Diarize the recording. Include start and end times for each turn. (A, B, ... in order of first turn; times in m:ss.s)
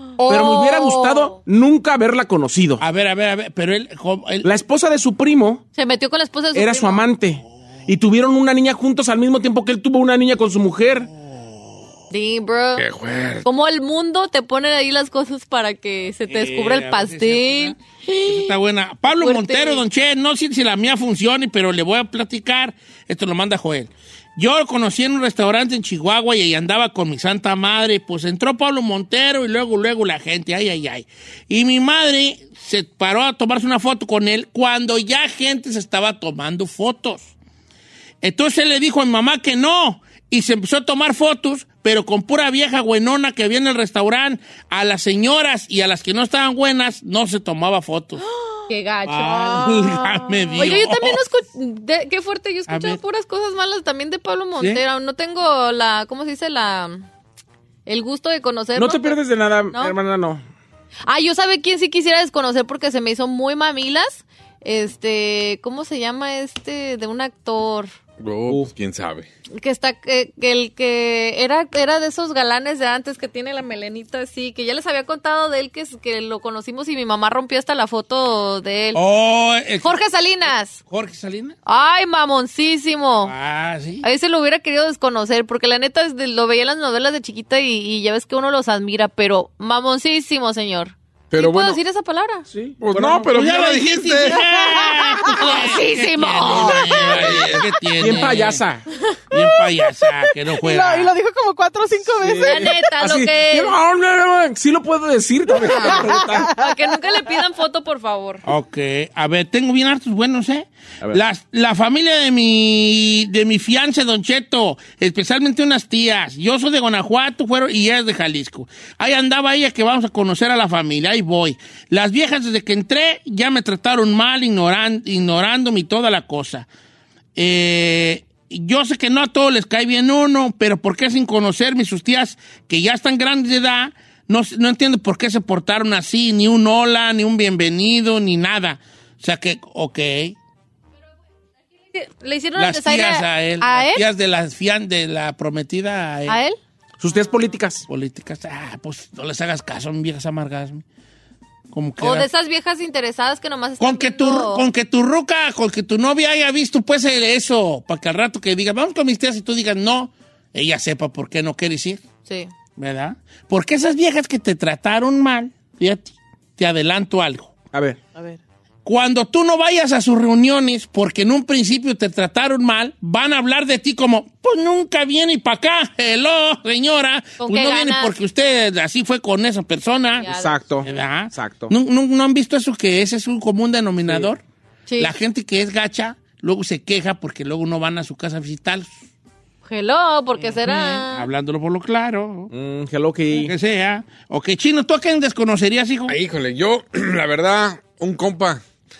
0:00.2-0:01.3 A
0:00.3-0:02.8 B
0:02.8-0:04.5 C
0:04.4-0:05.6 B
0:05.8-0:07.0 A
0:06.5-0:11.1 B
0:11.0-0:12.0 C
0:12.1-0:12.8 A
0:12.8-0:13.4 D
0:13.5-0:18.4 A
0:16.3-0:37.3 C
0:19.2-0:19.8 A
0:38.2-0:48.2 C
0:48.7-0:57.0 A
0:49.0-0:51.2 C
0:52.7-0:53.0 C
0:54.6-0:54.8 C
0:57.8-0:59.2 A
0:58.7-1:00.4 B
1:01.1-1:07.9 A
1:08.2-1:09.3 D
1:09.6-1:19.0 A
1:18.9-1:20.0 C
1:19.8-1:20.8 A
1:20.8-1:21.5 C
1:21.6-1:23.3 A
1:23.2-1:24.0 C
1:24.0-1:32.4 A
1:31.3-1:31.8 D
1:32.5-1:33.3 B
1:32.8-1:34.5 D
1:33.3-1:38.6 C
1:34.3-1:35.3 E
1:35.4-1:37.3 A
1:36.5-1:37.6 D
1:38.0-1:38.8 B
1:39.3-1:41.1 C
1:39.9-1:42.9 E
1:42.2-1:46.5 B
1:42.4-1:43.7 A
1:45.6-1:47.0 E
1:46.6-1:48.4 A
1:48.4-2:06.7 C
2:07.4-2:20.4 C
2:21.9-2:24.0 A
2:22.6-2:26.4 C
2:26.3-2:26.6 A
2:27.0-2:27.8 B
2:27.9-2:30.8 C
2:31.7-2:32.3 C
2:32.0-2:34.6 A
2:33.8-2:42.1 C
2:42.2-2:42.5 A
2:42.8-2:47.5 C
2:47.7-2:48.0 B
2:48.1-2:48.4 E
2:48.8-3:00.3 C
2:57.4-2:58.1 A
3:00.2-3:00.6 A
3:00.3-3:01.7 B
3:00.8-3:04.4 C
3:04.9-3:05.1 A
3:05.0-3:09.0 C
3:09.6-3:11.2 A
3:10.4-3:12.5 C
3:12.5-3:13.5 B
3:13.3-3:16.2 C
3:16.1-3:18.6 D